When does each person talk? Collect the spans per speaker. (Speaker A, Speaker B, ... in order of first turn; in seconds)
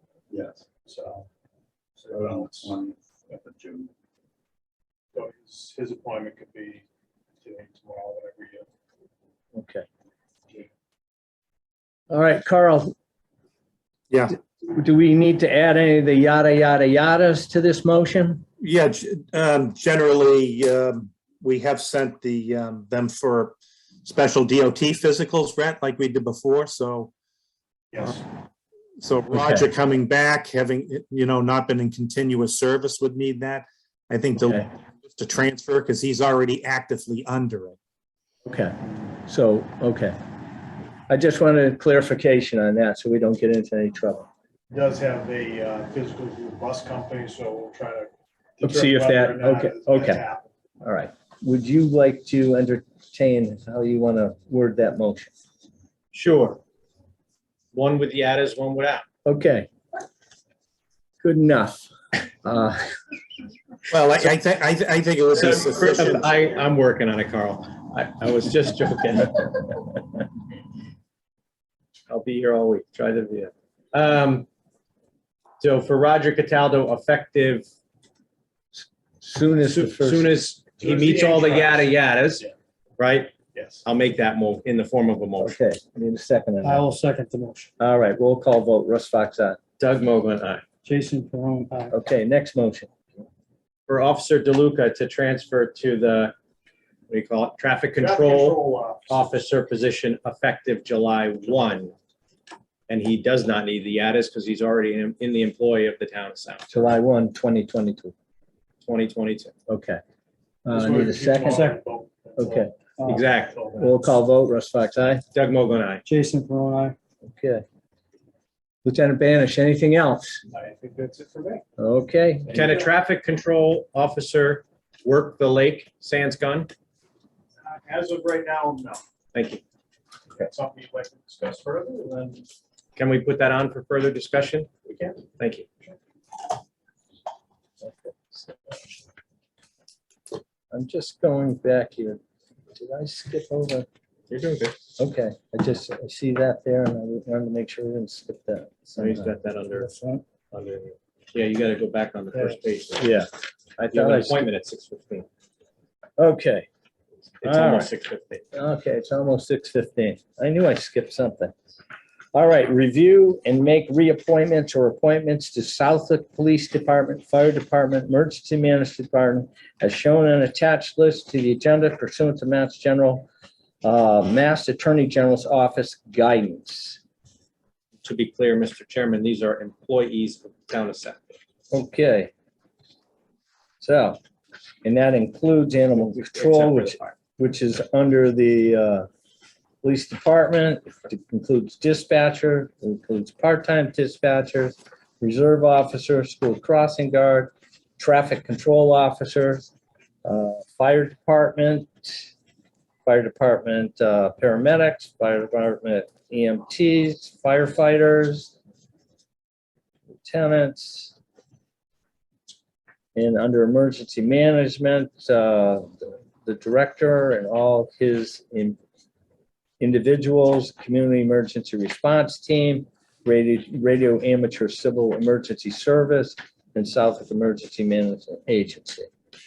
Speaker A: 0.3-0.6, 2.1-3.9
Speaker B: 0.8-1.3, 2.0-2.7, 5.1-6.8, 7.4-8.7, 27.9-28.2, 44.7-50.5, 80.8-82.5, 83.5-83.8, 98.0-99.2, 110.7-113.9, 120.5-121.6, 122.5-122.8, 127.6-129.0, 130.4-132.4, 134.9-135.2
Speaker C: 9.5-9.8, 12.1-12.9, 14.6-18.4, 29.3-29.7, 34.4-34.7, 38.5-40.1, 41.1-44.3, 48.6-50.2, 50.8-55.3, 59.2-59.7, 61.2-62.9, 79.2-80.4, 85.4-86.8, 87.8-89.6, 91.9-92.9, 106.7-108.1, 109.7-110.0, 110.6-111.7, 112.4-112.7, 113.8-115.2, 117.2-117.6, 118.8-120.4, 121.8-122.7, 137.8-138.5, 140.7-142.2, 142.7-143.9, 145.0-149.3, 153.0-153.3, 153.9-154.4, 156.2-156.7, 157.4-157.9, 158.5-161.5, 162.3-173.3, 173.8-177.0, 181.7-182.3, 183.8-184.2, 184.8-189.1, 189.8-199.7, 200.2-202.3, 203.0-208.5, 210.2-211.1, 213.1-218.8, 219.8-229.1
Speaker D: 14.1-14.4, 18.6-27.1, 29.0-37.8, 63.9-66.3
Speaker E: 56.1-56.6, 57.7-59.0, 65.3-69.8, 72.1-74.5, 75.6-77.7, 79.6-82.5, 83.0-85.6, 89.8-90.6, 93.9-96.3, 97.1-101.9, 102.9-106.9, 108.8-109.5, 113.1-113.6, 115.3-116.0, 122.5-126.7, 129.3-129.6, 132.9-134.8, 135.3-135.7, 144.3-144.8, 149.0-149.9, 150.5-153.1, 153.8-155.3, 157.4-158.4, 178.0-181.4, 186.0-187.1
Speaker F: 86.6-87.7, 90.8-91.9, 113.0-113.3, 116.0-117.0